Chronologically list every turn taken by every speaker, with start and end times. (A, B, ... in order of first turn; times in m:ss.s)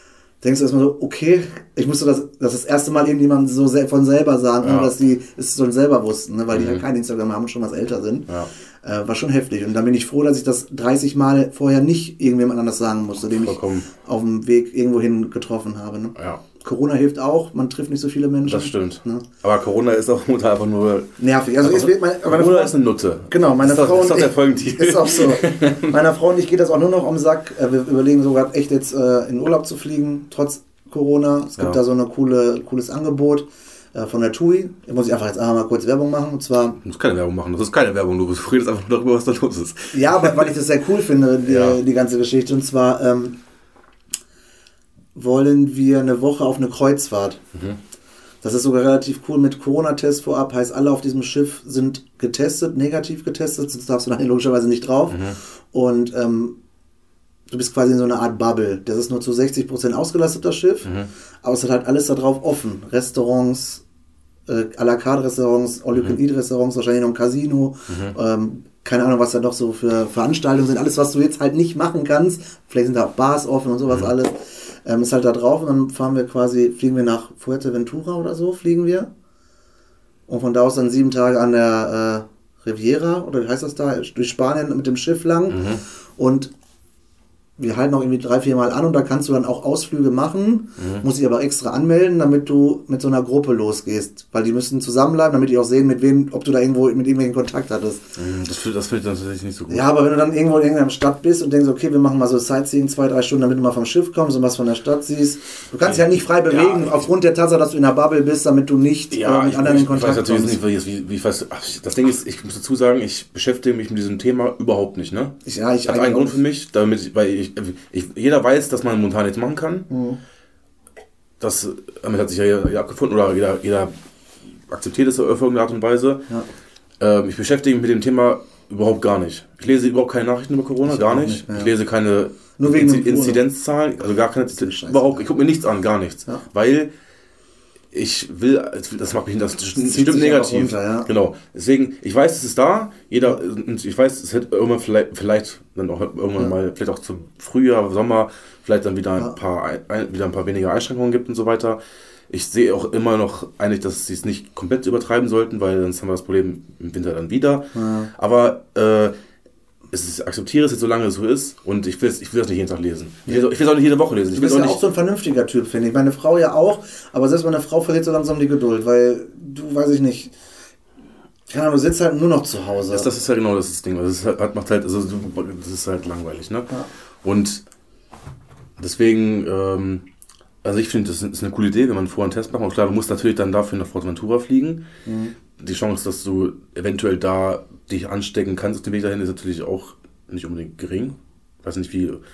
0:00.4-0:08.3 A
0:04.6-0:04.9 B
0:06.5-0:06.8 B
0:08.8-0:19.2 A
0:13.3-0:13.9 B
0:16.2-0:16.4 B
0:18.4-0:25.9 B
0:21.2-0:22.8 A
0:23.3-0:36.8 A
0:36.8-0:40.5 B
0:39.9-0:43.4 A
0:41.4-0:41.8 B
0:45.1-0:47.4 A
0:48.4-0:56.6 A
0:55.1-0:55.4 B
0:57.5-1:00.9 A
1:01.4-1:03.8 A
1:04.5-1:19.1 A
1:07.9-1:08.1 B
1:20.3-1:26.5 A
1:25.5-1:25.8 B
1:27.6-1:38.0 A
1:30.8-1:31.0 B
1:38.2-1:39.9 B
1:39.7-1:50.6 A
1:45.8-1:47.0 B
1:49.1-1:59.9 B
1:55.4-1:56.4 A
1:59.9-2:00.2 A
2:01.4-2:03.9 B
2:04.7-2:06.2 B
2:07.0-2:16.9 B
2:10.8-2:11.7 A
2:12.6-2:13.4 A
2:14.5-2:15.2 A
2:17.9-2:31.8 B
2:19.7-2:21.1 A
2:32.3-2:39.1 B
2:37.7-2:38.1 A
2:39.9-2:44.8 B
2:44.3-2:50.3 A
2:51.5-2:53.1 A
2:52.9-2:56.7 B
2:57.2-2:57.6 B
2:58.8-3:00.0 B
3:00.6-3:04.8 B
3:05.0-3:05.3 A
3:05.6-3:12.2 B